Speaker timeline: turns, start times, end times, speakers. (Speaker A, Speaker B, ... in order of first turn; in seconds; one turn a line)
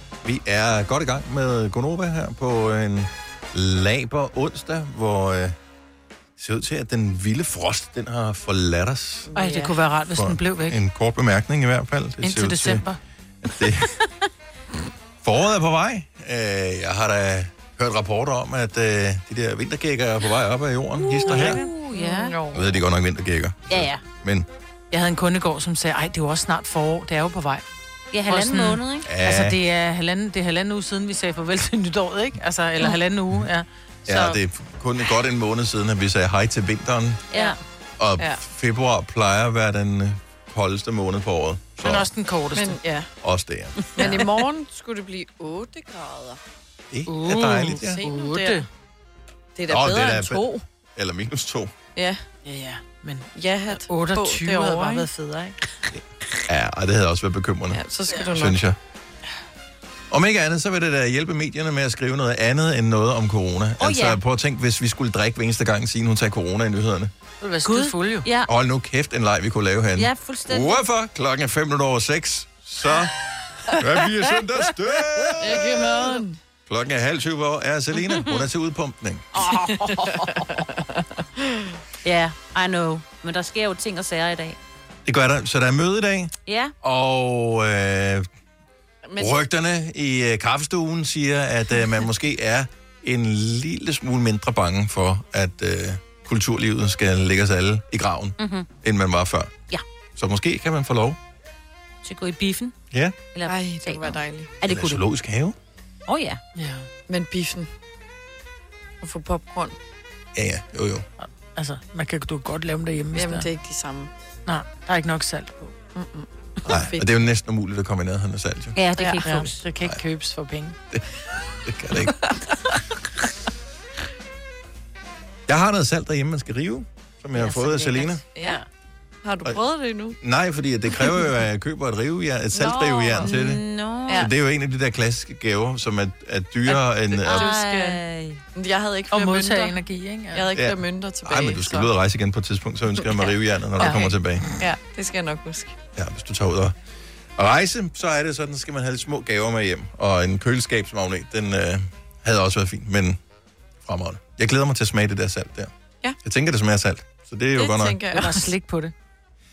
Speaker A: 0.2-5.6
Speaker A: 6.4-9.3
Speaker B: 9.3-9.8
Speaker C: 9.3-10.8
Speaker A: 10.1-12.8
Speaker C: 12.2-13.0
Speaker A: 13.4-13.9
Speaker A: 15.2-21.6
Speaker D: 21.0-22.4
Speaker B: 21.2-22.7
Speaker A: 22.5-24.5
Speaker D: 23.7-24.0
Speaker C: 24.9-27.6
Speaker D: 28.1-29.1
Speaker C: 28.3-34.4
Speaker A: 29.0-29.6
Speaker A: 34.1-37.2
Speaker D: 37.3-37.6
Speaker A: 38.0-42.1
Speaker C: 41.8-42.8
Speaker B: 42.5-43.1
Speaker A: 43.2-43.8
Speaker B: 44.0-46.4
Speaker C: 44.0-44.3
Speaker A: 46.9-48.0
Speaker C: 47.1-48.7
Speaker B: 47.8-48.6
Speaker B: 49.5-50.6
Speaker A: 49.7-51.7
Speaker B: 52.0-52.2
Speaker C: 52.5-55.6
Speaker B: 53.4-55.1
Speaker A: 56.5-58.8
Speaker B: 57.7-58.6
Speaker A: 60.1-67.1
Speaker D: 63.8-64.2
Speaker C: 67.4-68.3
Speaker D: 67.6-68.5
Speaker A: 68.5-73.2
Speaker D: 70.0-70.8
Speaker A: 73.8-76.0
Speaker B: 75.4-76.4
Speaker A: 76.7-79.5
Speaker D: 78.1-78.5
Speaker B: 79.8-81.0
Speaker D: 82.0-84.6
Speaker A: 85.1-88.3
Speaker D: 86.5-86.7
Speaker B: 89.0-89.3
Speaker A: 89.2-99.6
Speaker D: 98.4-98.7
Speaker A: 100.2-101.2
Speaker D: 102.0-102.8
Speaker A: 102.9-103.2
Speaker D: 103.3-105.0
Speaker B: 103.5-104.5
Speaker A: 104.6-105.6
Speaker D: 106.1-106.4
Speaker C: 106.6-106.9
Speaker B: 107.1-107.7
Speaker B: 109.0-109.8
Speaker A: 110.3-111.1
Speaker C: 111.2-113.5
Speaker B: 113.1-114.1
Speaker C: 114.5-115.8
Speaker B: 116.0-117.1
Speaker A: 116.7-118.8
Speaker D: 118.7-119.7
Speaker B: 119.0-119.5
Speaker C: 119.2-120.8
Speaker A: 121.6-122.2
Speaker A: 125.5-128.2
Speaker D: 127.4-128.7
Speaker B: 128.3-128.6
Speaker B: 129.2-130.2
Speaker A: 130.2-137.5
Speaker B: 132.5-133.5
Speaker D: 133.2-134.3
Speaker B: 136.7-138.0
Speaker D: 137.2-138.4
Speaker B: 138.6-139.8
Speaker C: 139.1-140.4
Speaker B: 140.3-141.9
Speaker A: 140.6-144.5
Speaker B: 143.0-144.1
Speaker C: 143.8-144.1
Speaker B: 144.6-145.8
Speaker A: 146.0-146.8
Speaker A: 147.4-153.2
Speaker A: 153.8-155.7
Speaker A: 156.2-158.0
Speaker B: 157.6-158.5
Speaker C: 158.1-158.9